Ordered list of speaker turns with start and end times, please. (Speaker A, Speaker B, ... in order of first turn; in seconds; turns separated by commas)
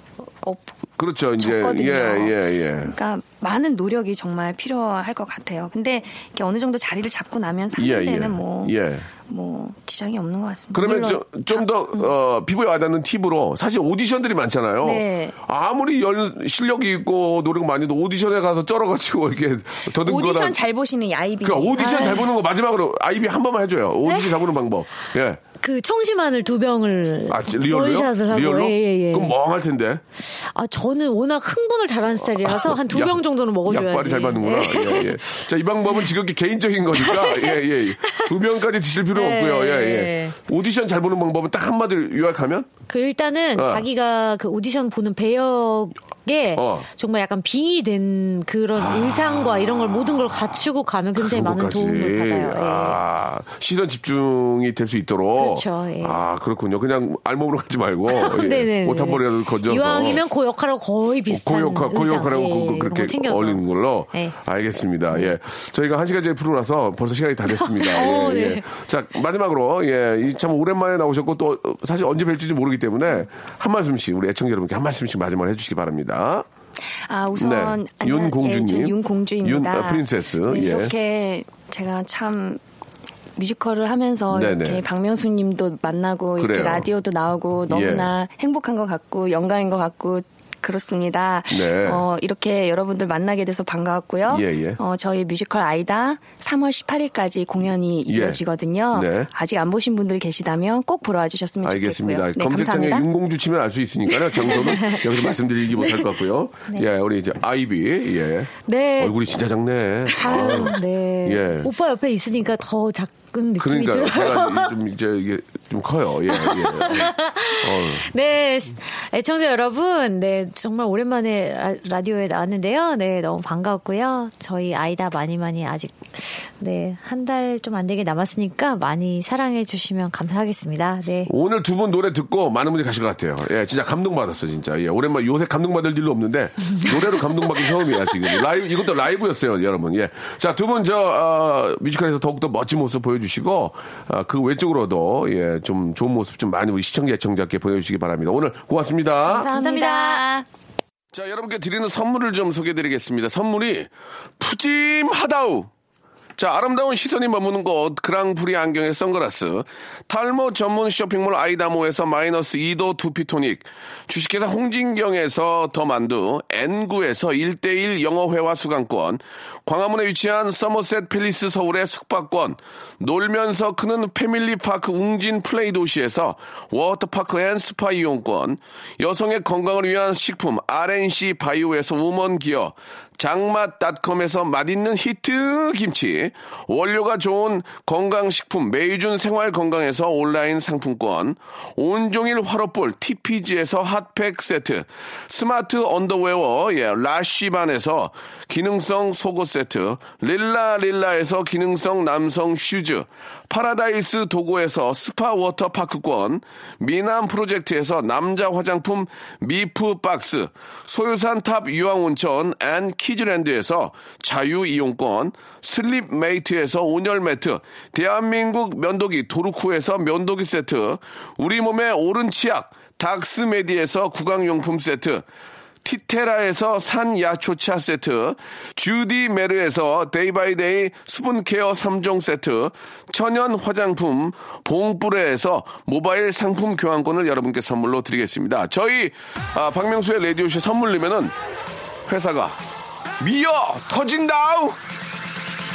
Speaker A: 0.4-0.7, Speaker B: 1.0-2.9, Speaker A: 1.4-8.7, Speaker B: 7.7-9.1, Speaker A: 9.3-12.1, Speaker B: 10.7-20.6, Speaker A: 14.8-15.4, Speaker A: 20.0-22.2, Speaker B: 21.4-25.4, Speaker C: 21.8-22.2, Speaker C: 24.1-24.4, Speaker C: 25.6-29.4, Speaker B: 27.3-30.0, Speaker C: 30.4-35.2, Speaker B: 32.4-42.7, Speaker C: 36.9-38.3, Speaker C: 39.1-40.4, Speaker C: 42.9-53.0, Speaker B: 43.5-43.8, Speaker B: 46.5-46.9, Speaker B: 48.8-49.8, Speaker B: 51.2-60.2, Speaker C: 55.4-56.2, Speaker C: 58.1-64.4, Speaker B: 61.3-76.5, Speaker C: 67.5-68.7, Speaker A: 77.1-82.6, Speaker B: 77.4-80.9, Speaker A: 83.4-103.0, Speaker B: 84.3-84.8, Speaker B: 86.4-86.9, Speaker B: 87.7-88.1, Speaker B: 91.5-92.0, Speaker B: 94.3-94.8, Speaker B: 98.1-98.4, Speaker B: 98.9-99.3, Speaker B: 101.6-111.7, Speaker C: 104.5-105.0, Speaker C: 108.7-109.2, Speaker C: 110.1-114.7, Speaker B: 113.6-118.1, Speaker C: 116.3-131.3, Speaker B: 131.3-149.5, Speaker A: 149.3-150.4, Speaker C: 149.5-150.3, Speaker B: 151.1-155.7, Speaker B: 156.4-225.2, Speaker B: 225.8-241.4, Speaker B: 242.1-242.6, Speaker B: 243.2-244.8